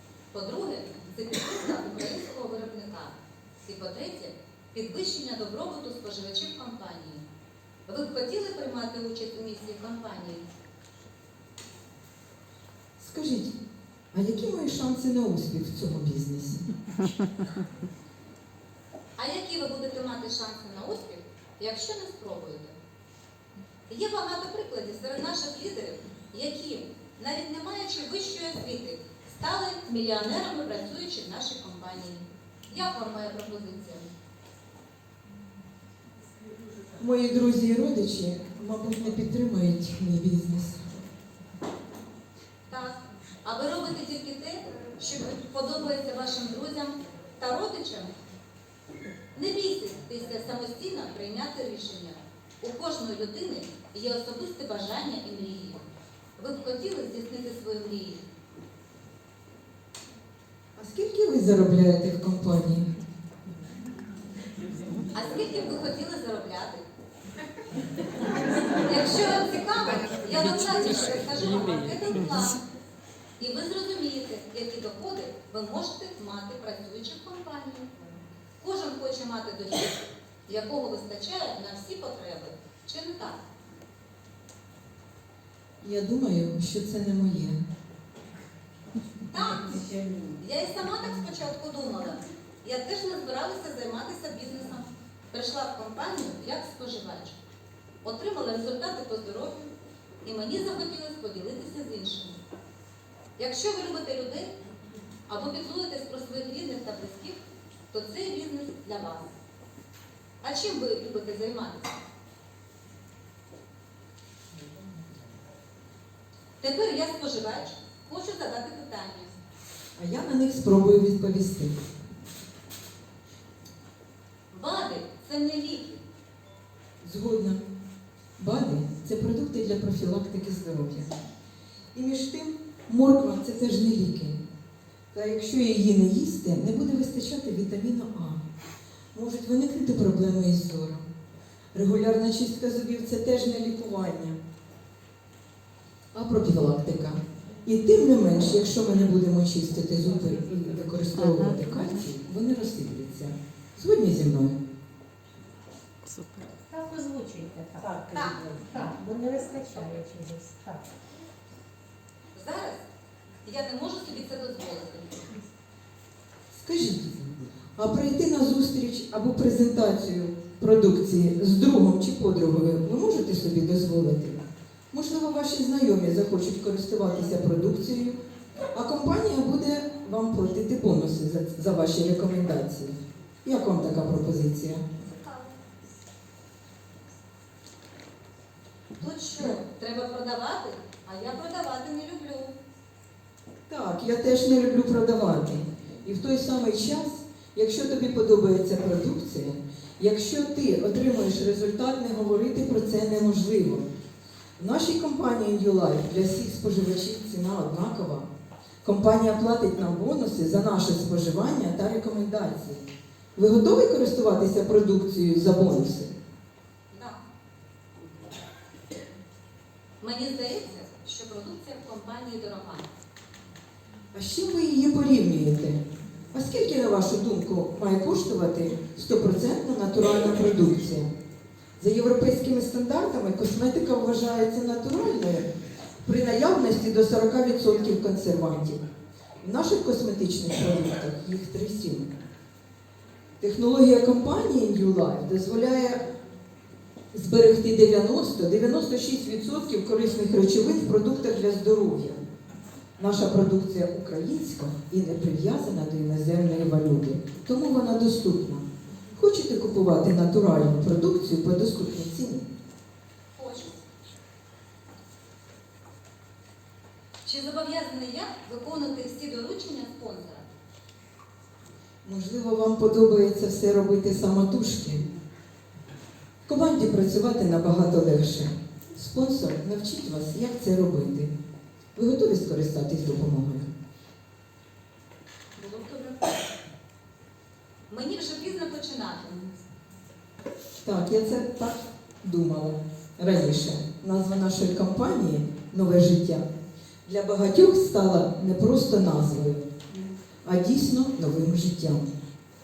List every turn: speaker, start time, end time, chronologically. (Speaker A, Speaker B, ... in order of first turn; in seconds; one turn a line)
Speaker A: 0.3-3.1
Speaker A: 3.7-7.2
Speaker A: 7.9-10.4
Speaker B: 13.0-13.6
Speaker B: 14.1-16.7
Speaker A: 19.2-22.8
Speaker A: 23.9-34.1
Speaker B: 37.0-40.9
Speaker A: 42.7-48.1
Speaker A: 49.3-55.8
Speaker A: 56.4-58.2
Speaker B: 60.8-62.9
Speaker A: 65.1-66.8
Speaker A: 68.8-72.6
Speaker A: 73.4-77.9
Speaker A: 78.6-83.4
Speaker B: 85.8-87.7
Speaker A: 89.3-97.4
Speaker A: 98.0-99.7
Speaker A: 100.2-102.3
Speaker A: 103.4-104.5
Speaker A: 105.3-107.4
Speaker A: 107.9-109.3
Speaker A: 110.4-112.0
Speaker A: 116.6-119.3
Speaker B: 120.0-121.8
Speaker A: 124.5-126.0
Speaker B: 127.0-127.6
Speaker B: 128.4-131.2
Speaker B: 131.9-134.4
Speaker B: 135.1-138.4
Speaker B: 139.1-141.1
Speaker B: 141.7-144.4
Speaker B: 146.1-154.6
Speaker C: 156.1-160.8
Speaker A: 158.1-158.5
Speaker A: 162.3-162.8
Speaker A: 163.4-165.3
Speaker B: 166.5-178.2
Speaker B: 178.7-184.9
Speaker A: 185.1-185.6
Speaker A: 189.0-192.5
Speaker B: 193.7-203.9
Speaker B: 204.6-208.3
Speaker B: 208.8-216.2
Speaker A: 216.9-217.2
Speaker A: 220.0-222.9
Speaker B: 224.1-231.1
Speaker B: 231.8-235.5
Speaker B: 236.0-238.8
Speaker B: 239.4-242.1
Speaker B: 243.4-246.0
Speaker B: 247.1-252.2
Speaker B: 253.0-262.5
Speaker A: 263.4-263.8
Speaker A: 267.2-270.5
Speaker B: 272.0-275.1
Speaker B: 276.5-281.3
Speaker B: 282.0-283.7
Speaker A: 285.6-286.3
Speaker A: 287.9-289.5
Speaker B: 290.8-296.5
Speaker B: 297.1-299.7
Speaker B: 300.4-302.1